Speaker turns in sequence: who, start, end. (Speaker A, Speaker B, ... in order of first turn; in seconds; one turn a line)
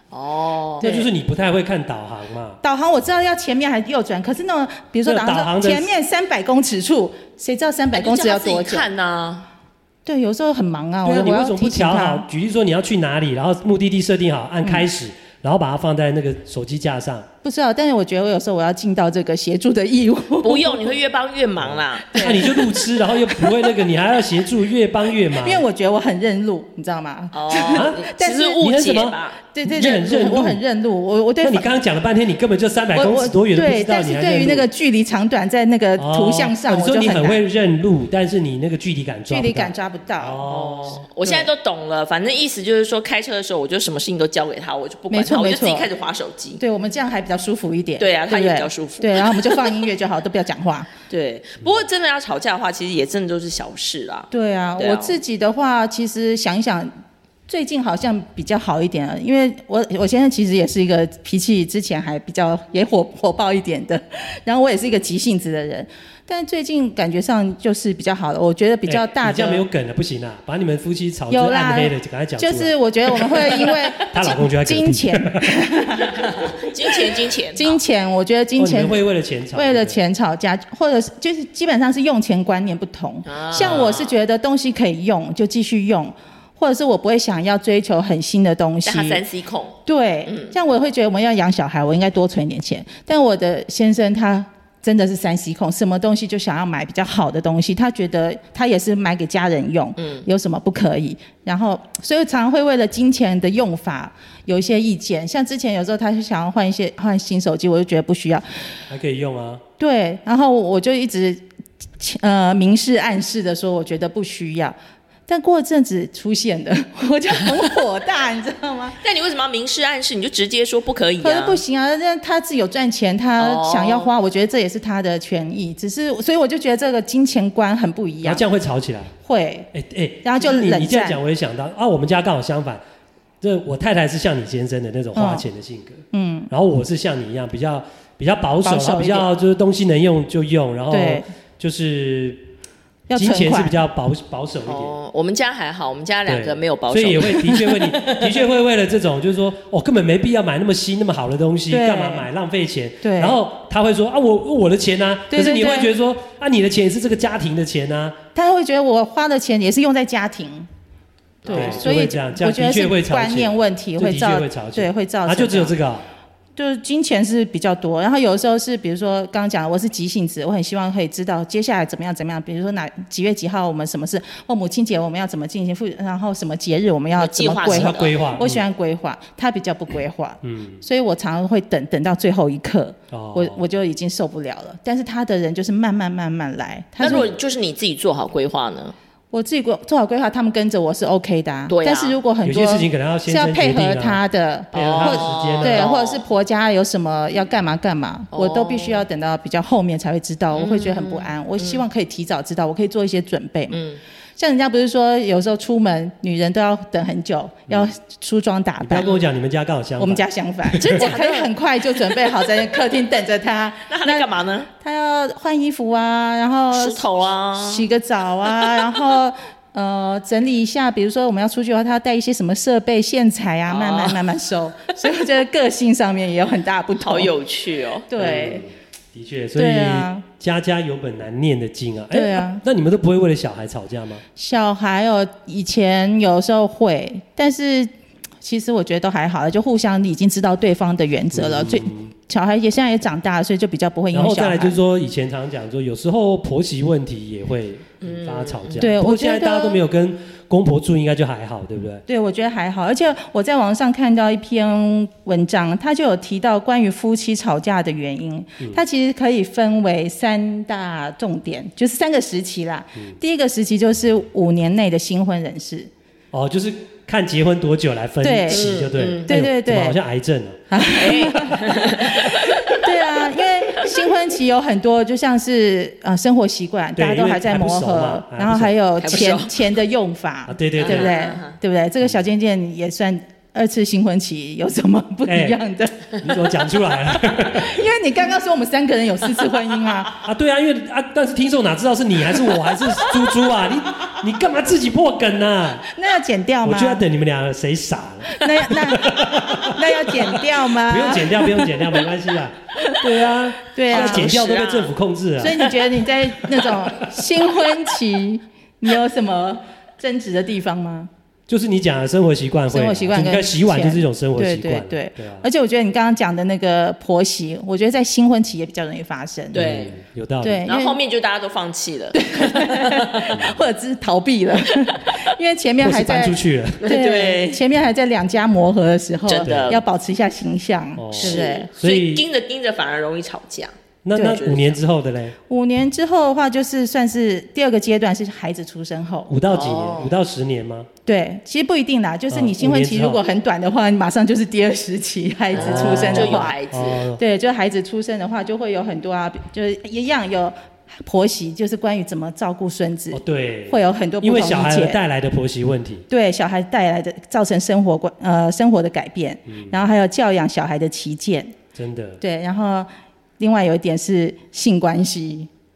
Speaker A: 0.1-0.9
Speaker B: 0.8-2.6
Speaker C: 0.8-1.1
Speaker C: 2.6-8.9
Speaker B: 5.0-5.9
Speaker A: 7.9-9.5
Speaker C: 10.1-12.3
Speaker B: 11.1-17.3
Speaker C: 17.4-21.0
Speaker A: 20.4-22.6
Speaker B: 21.6-25.6
Speaker C: 22.1-22.7
Speaker C: 25.4-28.6
Speaker A: 27.3-29.5
Speaker B: 27.7-30.6
Speaker C: 29.5-31.7
Speaker B: 31.4-34.7
Speaker C: 33.0-37.4
Speaker B: 36.0-41.1
Speaker C: 39.3-40.5
Speaker A: 40.5-46.6
Speaker C: 41.2-41.5
Speaker C: 45.1-45.9
Speaker C: 46.6-50.9
Speaker A: 48.0-49.8
Speaker A: 51.1-55.2
Speaker C: 54.3-56.9
Speaker C: 57.5-69.7
Speaker B: 68.9-72.7
Speaker C: 71.3-79.0
Speaker B: 74.0-75.5
Speaker A: 76.2-77.8
Speaker B: 78.6-80.0
Speaker C: 79.5-89.2
Speaker A: 83.3-84.2
Speaker A: 88.8-90.5
Speaker C: 89.9-108.6
Speaker A: 100.0-100.3
Speaker B: 108.9-109.6
Speaker C: 109.8-111.4
Speaker C: 112.0-114.8
Speaker C: 115.3-119.0
Speaker A: 119.0-121.6
Speaker C: 121.2-128.4
Speaker A: 123.4-124.1
Speaker B: 128.2-129.1
Speaker C: 129.2-129.7
Speaker B: 129.7-132.8
Speaker C: 130.2-131.2
Speaker B: 133.4-142.5
Speaker C: 135.2-135.5
Speaker C: 136.1-136.5
Speaker C: 138.6-139.3
Speaker C: 140.9-141.3
Speaker C: 143.1-143.8
Speaker B: 143.1-144.9
Speaker A: 144.7-148.3
Speaker B: 146.3-158.2
Speaker C: 151.7-152.3
Speaker C: 153.0-153.4
Speaker C: 155.3-155.9
Speaker C: 158.3-160.7
Speaker A: 161.4-161.9
Speaker C: 161.5-165.7
Speaker B: 161.5-166.1
Speaker C: 166.6-187.3
Speaker A: 177.2-178.3
Speaker B: 177.6-178.6
Speaker B: 180.4-180.8
Speaker B: 183.1-183.6
Speaker A: 187.0-188.9
Speaker C: 189.3-203.8
Speaker A: 191.7-192.2
Speaker B: 192.4-194.2
Speaker B: 194.7-195.9
Speaker A: 194.7-196.2
Speaker A: 198.3-199.1
Speaker A: 200.5-201.8
Speaker A: 203.7-204.0
Speaker C: 204.4-209.1
Speaker B: 207.7-207.9
Speaker B: 208.8-211.1
Speaker C: 210.0-214.3
Speaker A: 210.8-212.5
Speaker A: 213.9-214.7
Speaker C: 214.8-217.0
Speaker A: 216.7-217.9
Speaker C: 217.6-227.3
Speaker A: 218.4-219.1
Speaker A: 223.7-224.2
Speaker A: 227.0-228.1
Speaker C: 228.1-228.7
Speaker B: 228.2-234.2
Speaker C: 229.6-230.2
Speaker C: 232.1-232.6
Speaker C: 234.4-237.9
Speaker C: 238.4-244.8
Speaker B: 241.3-242.1
Speaker B: 244.1-252.0
Speaker A: 248.0-248.9
Speaker C: 248.8-249.8
Speaker C: 252.1-265.9
Speaker B: 266.3-270.6
Speaker C: 268.2-268.7
Speaker A: 268.5-269.3
Speaker C: 269.3-270.0
Speaker C: 270.7-290.2
Speaker A: 270.9-273.0
Speaker B: 277.0-278.8
Speaker A: 279.0-279.6
Speaker B: 280.5-281.1
Speaker A: 280.8-281.6
Speaker B: 285.3-285.6
Speaker B: 286.2-287.8
Speaker B: 290.2-295.9
Speaker C: 295.9-297.1
Speaker B: 296.6-305.8
Speaker C: 298.3-301.9
Speaker C: 303.7-304.4
Speaker A: 303.9-304.9
Speaker C: 305.4-311.1
Speaker B: 306.6-307.3
Speaker B: 311.5-315.5
Speaker C: 312.7-319.6
Speaker B: 319.5-320.7
Speaker A: 319.5-320.0
Speaker C: 320.4-321.0
Speaker A: 320.7-323.3
Speaker C: 322.1-331.7
Speaker B: 323.3-323.6
Speaker B: 325.8-326.9
Speaker A: 326.8-327.6
Speaker A: 329.3-329.8
Speaker B: 329.4-329.8
Speaker B: 331.0-332.2
Speaker A: 331.1-334.8
Speaker B: 334.0-335.4
Speaker C: 334.2-334.4
Speaker C: 335.5-339.3
Speaker B: 339.3-340.9
Speaker A: 339.5-340.1
Speaker C: 341.1-346.6
Speaker B: 342.3-343.2
Speaker A: 345.5-347.1
Speaker B: 345.5-347.2
Speaker C: 347.2-355.0
Speaker B: 353.1-356.1
Speaker C: 356.1-361.6
Speaker B: 359.5-359.8
Speaker B: 361.8-362.2
Speaker C: 362.2-365.5